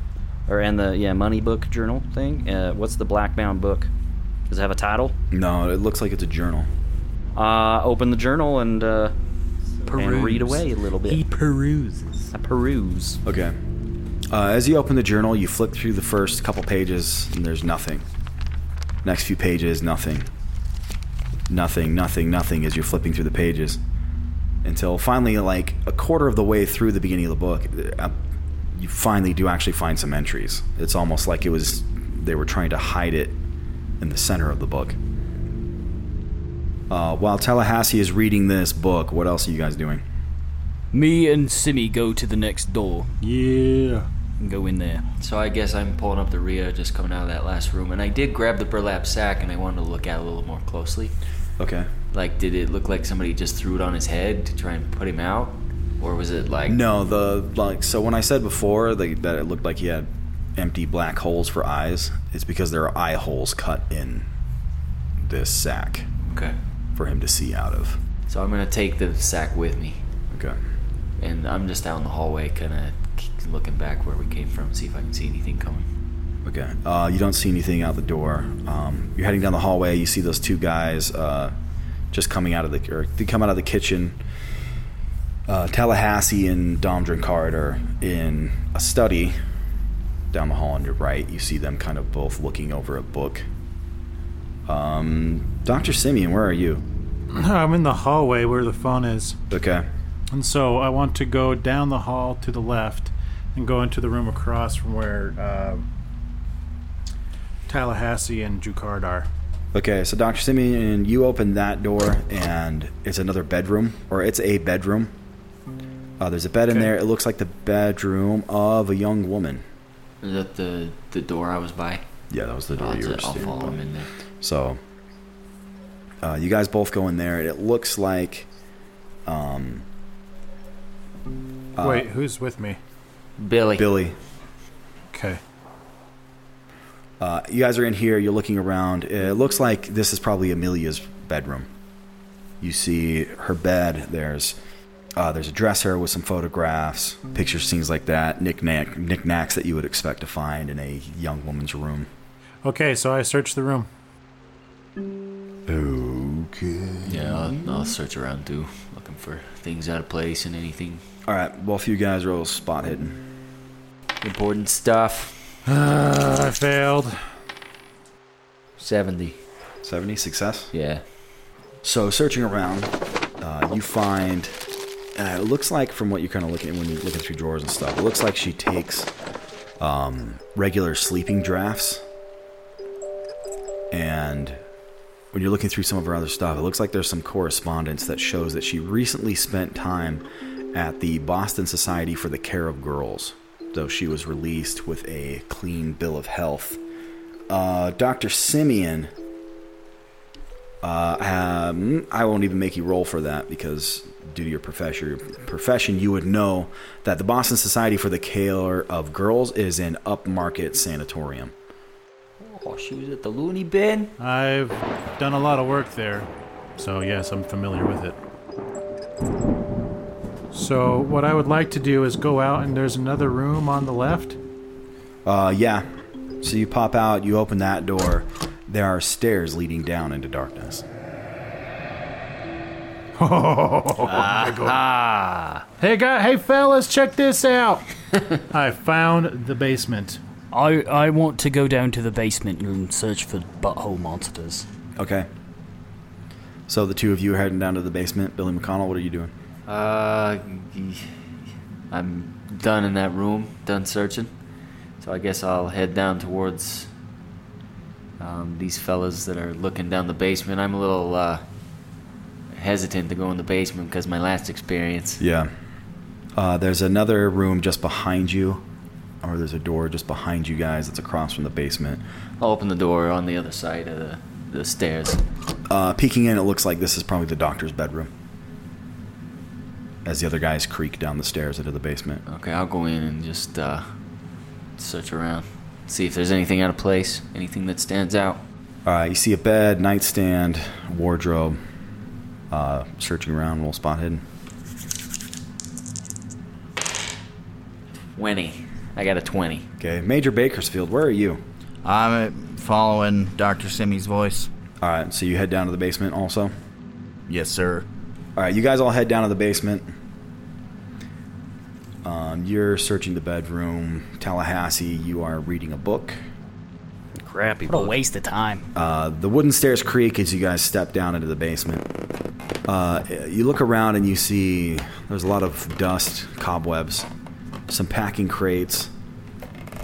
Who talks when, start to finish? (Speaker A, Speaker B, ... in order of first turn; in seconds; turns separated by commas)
Speaker A: 0.5-3.9, Speaker A: 4.5-5.1, Speaker B: 5.3-6.7, Speaker A: 7.3-9.1, Speaker C: 9.9-12.2, Speaker A: 9.9-11.2, Speaker A: 12.3-13.2, Speaker B: 13.2-13.6, Speaker B: 14.3-18.1, Speaker B: 19.0-20.3, Speaker B: 21.5-23.8, Speaker B: 24.6-28.1, Speaker B: 28.7-33.4, Speaker B: 34.0-35.0, Speaker B: 36.9-40.0, Speaker C: 40.9-43.1, Speaker D: 43.2-44.0, Speaker C: 44.4-45.0, Speaker E: 45.2-51.1, Speaker B: 51.6-51.9, Speaker E: 52.1-56.8, Speaker B: 56.7-64.3, Speaker B: 65.2-66.1, Speaker E: 66.3-66.5, Speaker B: 67.0-68.0, Speaker E: 68.3-70.0, Speaker B: 70.3-70.6, Speaker E: 71.2-75.9, Speaker B: 76.4-81.5, Speaker B: 82.1-84.2, Speaker B: 85.5-89.4, Speaker B: 90.3-93.5, Speaker B: 94.7-96.8, Speaker D: 97.3-99.4, Speaker B: 99.5-99.9, Speaker D: 100.3-105.8, Speaker D: 107.7-109.3, Speaker B: 109.7-115.1, Speaker B: 116.2-119.6, Speaker E: 120.2-122.0, Speaker B: 122.3-123.8, Speaker E: 122.8-124.1, Speaker B: 124.4-124.8, Speaker B: 126.2-128.5, Speaker B: 129.2-129.8, Speaker B: 131.8-132.1, Speaker D: 131.8-132.8, Speaker E: 133.4-133.9, Speaker B: 133.8-134.2, Speaker D: 135.1-135.4, Speaker B: 137.2-141.7, Speaker B: 142.6-144.6, Speaker B: 145.2-152.1, Speaker D: 152.6-153.9, Speaker B: 155.7-157.9, Speaker E: 157.1-161.0, Speaker B: 161.2-163.2, Speaker E: 164.2-165.4, Speaker D: 165.7-167.2, Speaker E: 168.8-169.4, Speaker B: 169.8-170.7, Speaker E: 170.7-171.0, Speaker B: 171.8-174.6, Speaker B: 175.2-179.1, Speaker B: 179.8-182.0, Speaker B: 183.9-184.6, Speaker B: 185.3-196.8, Speaker B: 197.5-199.1, Speaker B: 200.8-211.5, Speaker E: 212.4-214.1, Speaker D: 214.2-218.2, Speaker D: 220.5-224.4, Speaker B: 225.2-225.9, Speaker B: 226.4-230.8, Speaker D: 233.2-234.8, Speaker E: 234.1-235.6, Speaker D: 235.8-237.9, Speaker D: 238.5-240.2, Speaker C: 240.5-244.7, Speaker B: 245.0-245.3, Speaker B: 246.7-249.3, Speaker E: 249.7-251.1, Speaker E: 251.9-254.3, Speaker E: 255.0-256.9, Speaker E: 258.2-261.4, Speaker E: 262.5-265.2, Speaker B: 265.2-265.5, Speaker B: 266.4-268.6, Speaker B: 269.2-272.0, Speaker E: 272.4-275.2, Speaker B: 275.7-278.1, Speaker B: 280.0-282.2, Speaker E: 282.3-283.9, Speaker E: 284.8-288.4, Speaker B: 288.9-291.6, Speaker B: 292.5-294.2, Speaker E: 298.1-299.6, Speaker B: 299.8-301.4, Speaker F: 301.8-304.5, Speaker B: 304.8-306.5, Speaker F: 307.3-307.9, Speaker B: 308.4-309.9, Speaker B: 312.0-316.2, Speaker A: 317.1-317.9, Speaker C: 317.7-318.6, Speaker B: 318.7-321.9, Speaker B: 322.7-327.1, Speaker B: 327.7-328.9